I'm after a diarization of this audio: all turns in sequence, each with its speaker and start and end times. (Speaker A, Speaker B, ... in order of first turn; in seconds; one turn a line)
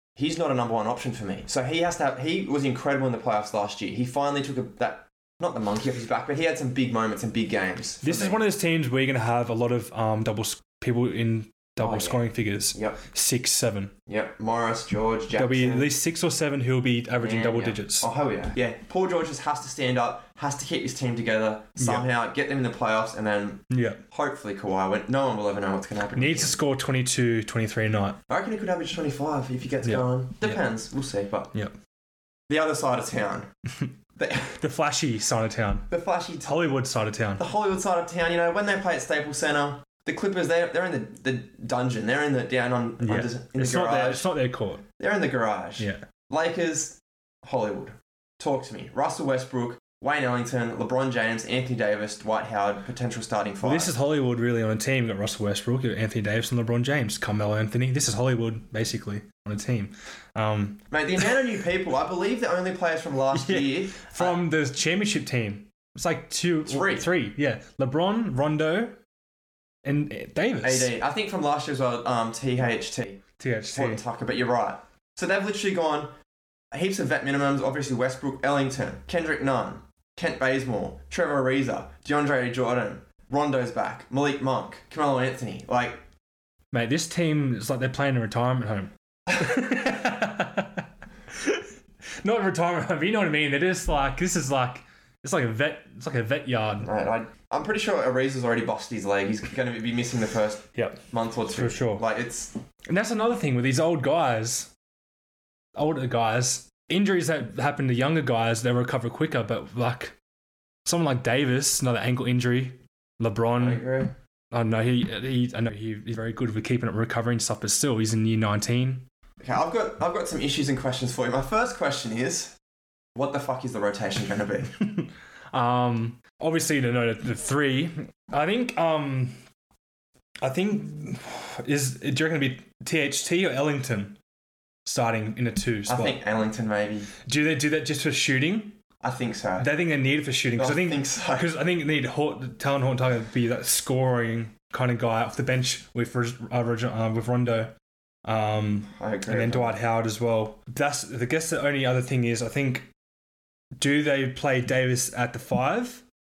Speaker A: 0.2-8.4
Speaker B: 8.0-13.9
Speaker A: 11.8-13.0
Speaker A: 14.1-15.9
Speaker B: 15.3-18.1
Speaker A: 17.2-26.6
Speaker B: 21.8-22.1
Speaker B: 23.7-24.0
Speaker B: 26.1-28.2
Speaker A: 28.3-31.5
Speaker B: 29.8-30.6
Speaker A: 32.5-33.5
Speaker A: 34.2-34.6
Speaker B: 34.5-35.9
Speaker A: 35.9-36.6
Speaker B: 36.4-37.4
Speaker A: 37.4-44.3
Speaker B: 43.0-44.9
Speaker A: 45.0-53.9
Speaker B: 45.8-46.0
Speaker B: 53.6-61.3
Speaker A: 60.9-64.4
Speaker B: 63.3-69.0
Speaker A: 66.7-67.1
Speaker B: 69.8-70.9
Speaker A: 70.6-76.1
Speaker B: 73.4-74.0
Speaker A: 76.7-86.0
Speaker B: 86.7-91.7
Speaker B: 92.2-96.9
Speaker A: 96.8-102.5
Speaker B: 100.8-101.0
Speaker B: 101.5-102.0
Speaker B: 102.9-104.7
Speaker B: 105.8-110.2
Speaker B: 110.8-113.8
Speaker A: 113.6-114.1
Speaker B: 114.5-119.1
Speaker A: 119.4-122.5
Speaker A: 123.2-124.8
Speaker B: 124.7-129.4
Speaker B: 130.4-134.2
Speaker B: 134.8-136.2
Speaker A: 135.9-137.1
Speaker B: 137.2-138.8
Speaker A: 139.0-139.7
Speaker B: 139.6-147.7
Speaker A: 140.6-141.5
Speaker B: 148.2-152.9
Speaker A: 148.9-149.8
Speaker B: 153.8-156.0